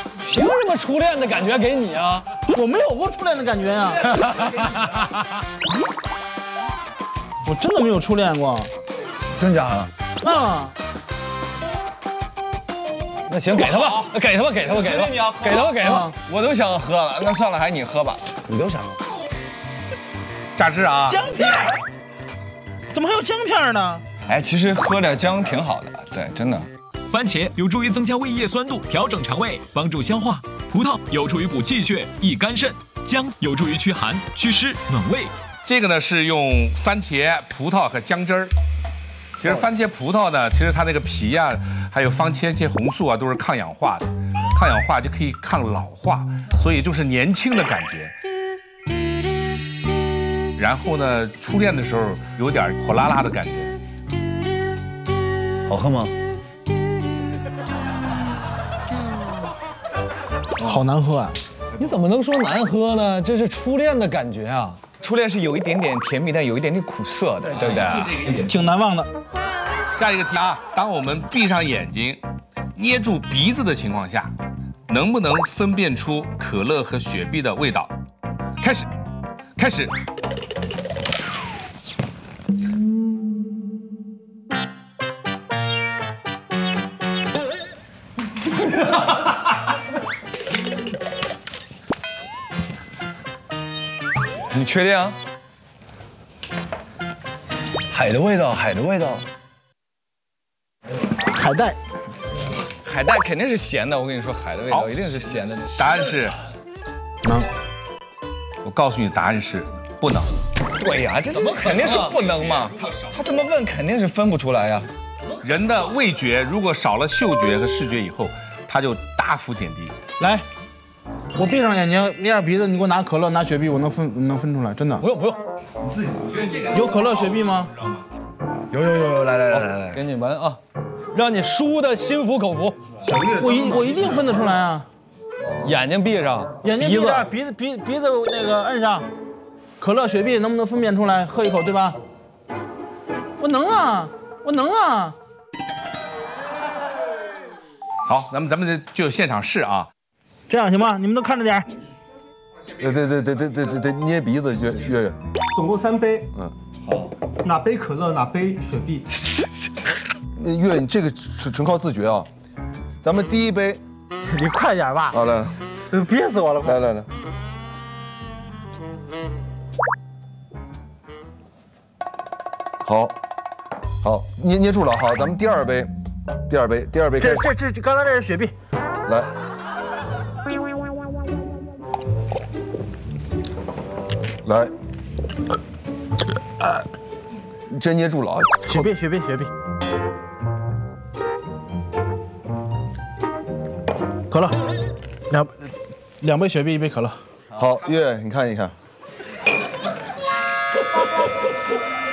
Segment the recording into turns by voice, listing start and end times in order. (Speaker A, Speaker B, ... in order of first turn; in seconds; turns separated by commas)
Speaker A: 0.2-2.2, Speaker B: 2.5-4.2, Speaker A: 4.2-5.1, Speaker B: 7.4-8.7, Speaker C: 9.4-9.9, Speaker B: 10.2-10.7, Speaker A: 13.3-16.1, Speaker D: 13.7-15.4, Speaker B: 15.8-16.1, Speaker D: 16.2-18.2, Speaker C: 18.4-18.9, Speaker E: 20.6-21.1, Speaker B: 21.0-21.8, Speaker B: 22.9-24.0, Speaker D: 24.3-26.7, Speaker F: 27.1-35.3, Speaker E: 35.6-38.5, Speaker E: 39.4-48.1, Speaker E: 50.6-53.7, Speaker C: 55.7-56.1, Speaker B: 60.6-61.4, Speaker A: 61.8-64.8, Speaker D: 65.0-68.1, Speaker E: 67.5-68.5, Speaker B: 68.3-69.1, Speaker E: 70.0-72.2, Speaker E: 72.8-74.3, Speaker E: 74.9-77.9, Speaker E: 78.6-78.9, Speaker E: 79.6-79.9, Speaker D: 94.5-95.2, Speaker C: 97.9-99.2, Speaker B: 101.3-101.8, Speaker D: 102.8-105.7, Speaker E: 104.7-105.1, Speaker E: 105.8-106.4, Speaker E: 108.6-110.3, Speaker D: 110.8-114.9, Speaker A: 111.3-112.5, Speaker E: 115.4-119.9, Speaker B: 120.2-120.4, Speaker B: 121.3-125.1, Speaker A: 125.0-125.4, Speaker E: 126.3-128.0, Speaker B: 126.7-127.7, Speaker C: 128.7-130.0, Speaker A: 129.5-130.6, Speaker A: 131.1-132.8, Speaker B: 133.3-134.8, Speaker A: 135.6-137.3, Speaker B: 136.6-139.1, Speaker B: 139.8-142.0, Speaker B: 143.4-145.2, Speaker E: 148.0-149.9, Speaker B: 150.5-151.7, Speaker G: 152.8-155.2, Speaker H: 155.5-156.3, Speaker H: 157.4-159.0, Speaker G: 160.4-162.3, Speaker G: 163.0-163.8, Speaker B: 164.3-165.2, Speaker G: 165.1-165.5, Speaker B: 165.9-166.8, Speaker G: 166.6-167.1, Speaker G: 172.8-173.2, Speaker G: 174.0-175.9, Speaker G: 176.5-177.4, Speaker B: 177.2-178.5, Speaker G: 179.1-179.3, Speaker G: 184.4-184.7, Speaker G: 187.7-188.9, Speaker B: 188.7-189.5, Speaker B: 194.3-194.6, Speaker B: 196.2-197.2, Speaker G: 197.5-198.7